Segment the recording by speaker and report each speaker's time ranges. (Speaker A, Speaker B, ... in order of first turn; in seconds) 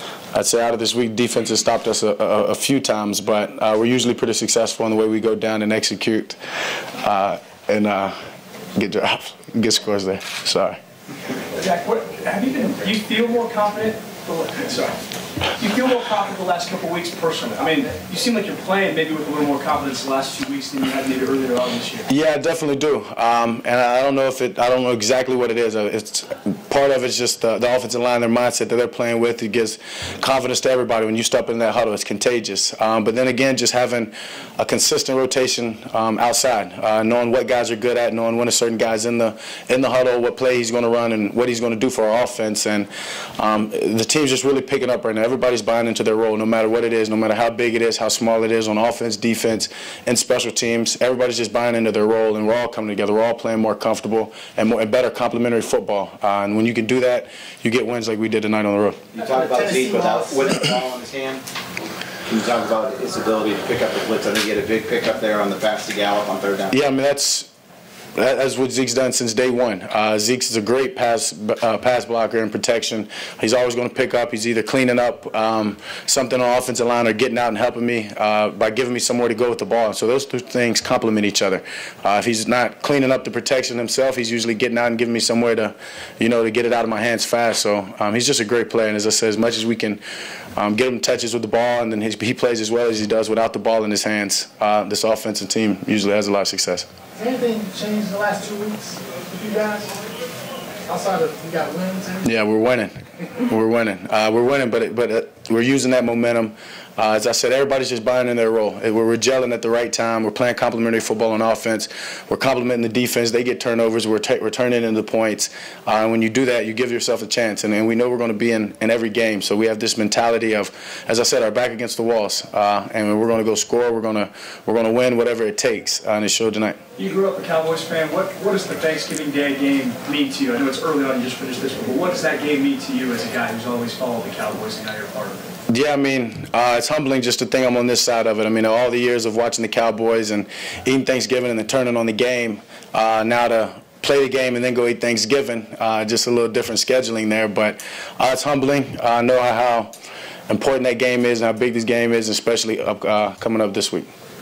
Speaker A: 0.3-6.4, 7.0-8.2, 8.8-10.8, 22.1-59.1, 66.7-67.5, 68.2-90.0, 90.6-96.9, 102.2-126.8, 135.7-149.9, 150.5-154.1
Speaker B: 11.5-22.1, 127.0-135.5
Speaker C: 59.1-61.4, 62.2-66.8
Speaker D: 59.2-60.7, 97.2-100.0, 100.9-102.2